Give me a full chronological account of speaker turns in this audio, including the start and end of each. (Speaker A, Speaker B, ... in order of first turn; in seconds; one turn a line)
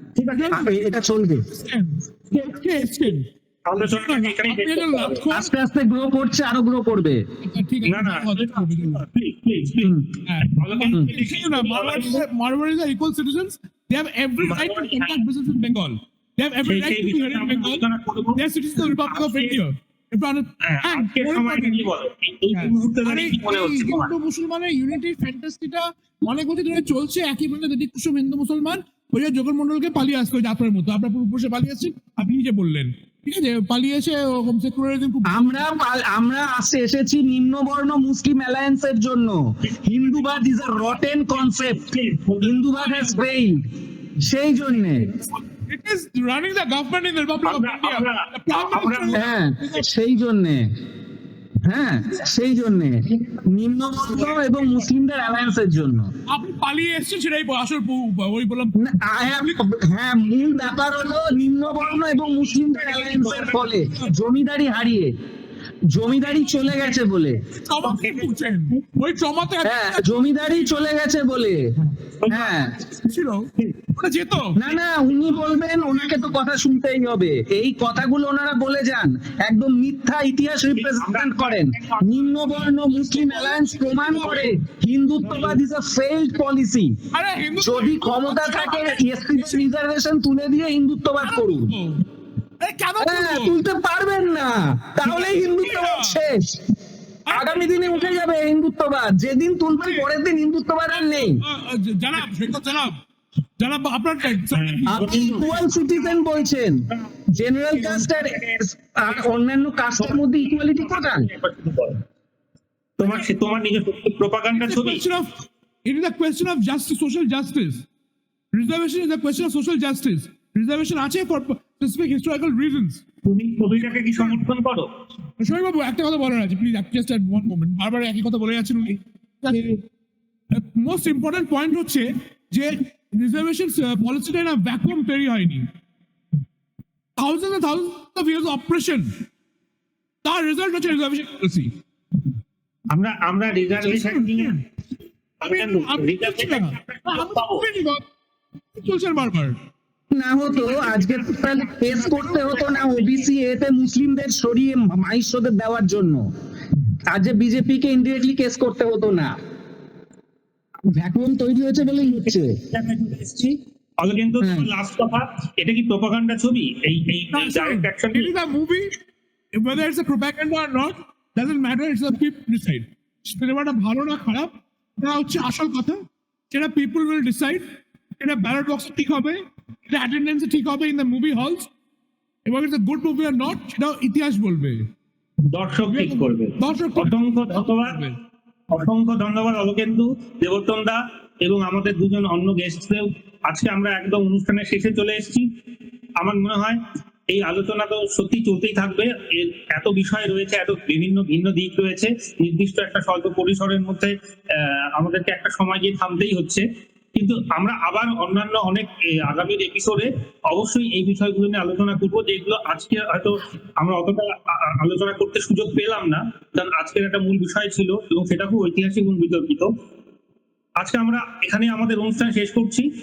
Speaker A: 0.2-0.7
Speaker B: 0.3-0.7
Speaker C: 0.5-1.4
Speaker B: 1.4-5.5
Speaker A: 3.6-5.2
Speaker C: 5.3-7.2
Speaker B: 7.4-9.1
Speaker A: 7.8-12.2
Speaker B: 10.2-21.9
Speaker A: 14.4-15.2
Speaker A: 16.7-18.4
Speaker A: 19.0-19.6
Speaker A: 20.6-24.1
Speaker B: 22.5-35.6
Speaker C: 35.2-43.6
Speaker A: 41.5-43.0
Speaker C: 44.2-45.1
Speaker B: 45.7-49.9
Speaker A: 47.4-49.2
Speaker C: 49.1-50.7
Speaker C: 51.6-56.1
Speaker B: 56.3-58.8
Speaker C: 58.8-65.1
Speaker B: 62.9-64.1
Speaker C: 65.9-67.5
Speaker B: 67.6-70.6
Speaker C: 69.6-72.8
Speaker A: 72.2-72.6
Speaker B: 72.9-74.6
Speaker C: 74.5-87.0
Speaker A: 80.8-82.6
Speaker B: 83.0-84.5
Speaker B: 87.1-89.7
Speaker C: 87.6-91.8
Speaker B: 91.2-92.0
Speaker B: 92.6-93.6
Speaker C: 93.0-96.6
Speaker B: 95.0-96.2
Speaker B: 97.2-98.2
Speaker C: 97.3-101.4
Speaker B: 101.0-103.0
Speaker B: 103.6-105.5
Speaker A: 104.5-105.9
Speaker C: 104.9-111.3
Speaker A: 107.7-108.4
Speaker A: 110.0-112.0
Speaker A: 113.0-115.0
Speaker B: 114.6-117.8
Speaker B: 118.5-123.0
Speaker A: 123.2-124.9
Speaker B: 123.8-124.5
Speaker B: 125.4-129.8
Speaker B: 130.5-135.7
Speaker B: 137.2-139.1
Speaker B: 140.2-141.7
Speaker A: 142.9-144.6
Speaker B: 143.8-144.6
Speaker A: 145.4-147.7
Speaker B: 145.4-148.0
Speaker B: 148.7-149.6
Speaker C: 150.1-156.3
Speaker A: 150.6-153.1
Speaker C: 157.1-159.3
Speaker C: 160.9-162.6
Speaker A: 162.7-168.3
Speaker C: 164.4-164.7
Speaker B: 167.3-168.9
Speaker B: 169.5-177.6
Speaker B: 178.2-181.7
Speaker B: 182.4-184.9
Speaker A: 185.5-188.1
Speaker B: 185.9-188.2
Speaker A: 188.7-195.5
Speaker A: 196.2-219.7
Speaker A: 220.8-222.9